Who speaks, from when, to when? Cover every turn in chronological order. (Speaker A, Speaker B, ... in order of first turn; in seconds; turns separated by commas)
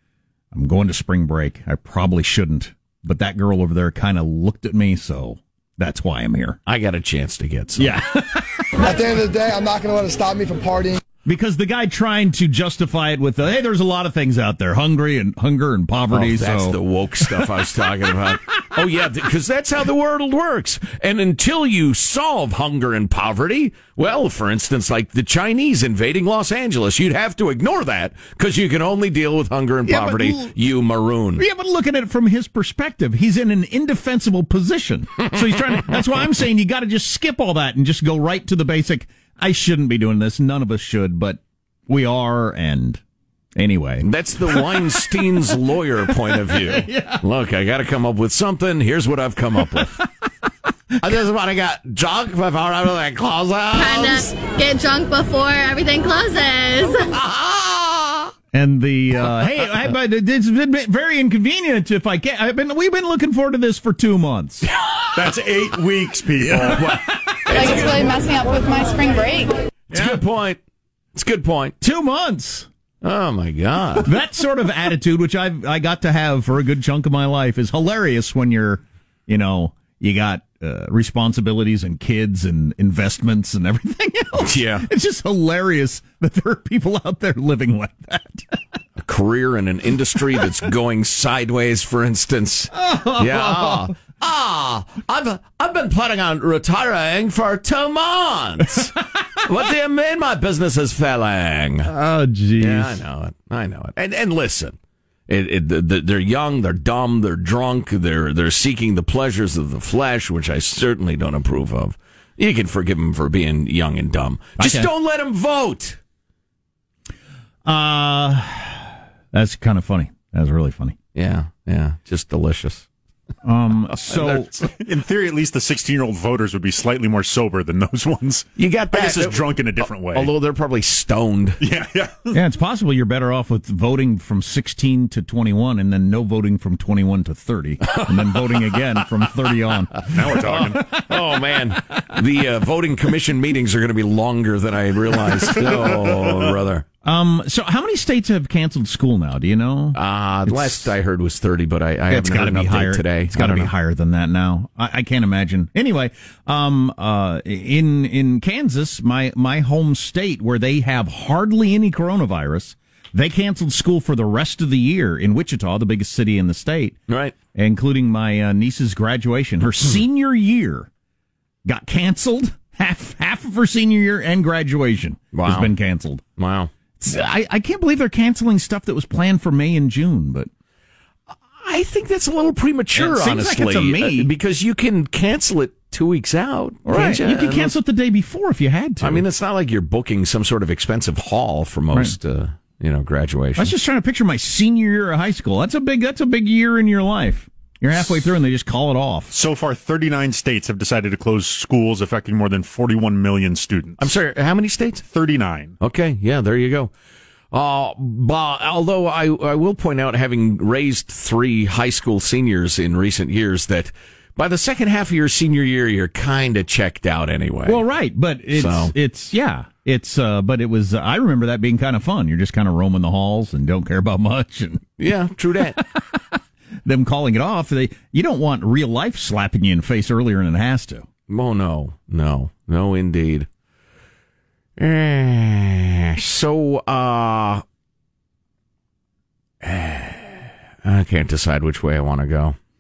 Speaker A: 0.5-6.6, Speaker B: 6.7-7.9, Speaker A: 7.8-8.7, Speaker C: 8.8-11.0, Speaker A: 11.2-17.6, Speaker B: 16.1-31.4, Speaker A: 29.9-30.5, Speaker A: 31.4-43.0, Speaker B: 35.2-36.0, Speaker A: 43.5-47.2, Speaker B: 44.0-50.0, Speaker B: 51.0-54.3, Speaker D: 53.7-57.0, Speaker B: 57.1-58.3, Speaker A: 58.5-64.7, Speaker E: 65.1-66.9, Speaker B: 66.5-68.1, Speaker A: 66.5-67.6, Speaker F: 67.5-69.5, Speaker B: 69.9-70.6, Speaker A: 69.9-70.2, Speaker B: 71.1-71.8, Speaker A: 71.8-72.7, Speaker B: 73.0-74.1, Speaker A: 74.0-88.6, Speaker B: 84.4-84.9, Speaker B: 89.0-101.9, Speaker A: 92.7-93.9, Speaker A: 101.9-103.0, Speaker B: 102.6-104.8, Speaker B: 105.3-116.0, Speaker A: 114.6-114.9, Speaker A: 117.6-121.0, Speaker B: 121.1-122.9, Speaker A: 123.4-124.5, Speaker B: 124.0-124.7, Speaker E: 124.7-130.3, Speaker B: 128.6-129.4, Speaker B: 130.1-131.6, Speaker E: 131.6-132.4, Speaker A: 132.3-140.9, Speaker B: 137.9-138.8, Speaker E: 140.1-140.8, Speaker B: 140.2-146.8, Speaker E: 145.4-146.5, Speaker A: 147.0-150.9, Speaker B: 149.9-153.7, Speaker A: 152.1-167.0, Speaker B: 167.1-167.3, Speaker A: 167.5-170.9, Speaker A: 171.6-176.2, Speaker B: 175.3-175.7, Speaker B: 176.4-176.7, Speaker A: 177.0-180.5, Speaker B: 181.6-187.7, Speaker A: 182.9-184.3, Speaker A: 186.8-189.2, Speaker B: 189.0-193.7, Speaker A: 193.6-199.3, Speaker E: 199.3-204.1, Speaker B: 204.0-205.0, Speaker E: 205.0-205.7, Speaker B: 205.8-206.9, Speaker B: 207.5-217.8, Speaker A: 217.6-225.0, Speaker B: 218.5-218.9, Speaker B: 225.0-225.8, Speaker A: 226.8-231.1, Speaker B: 231.3-233.5, Speaker B: 234.8-237.6, Speaker B: 239.6-242.6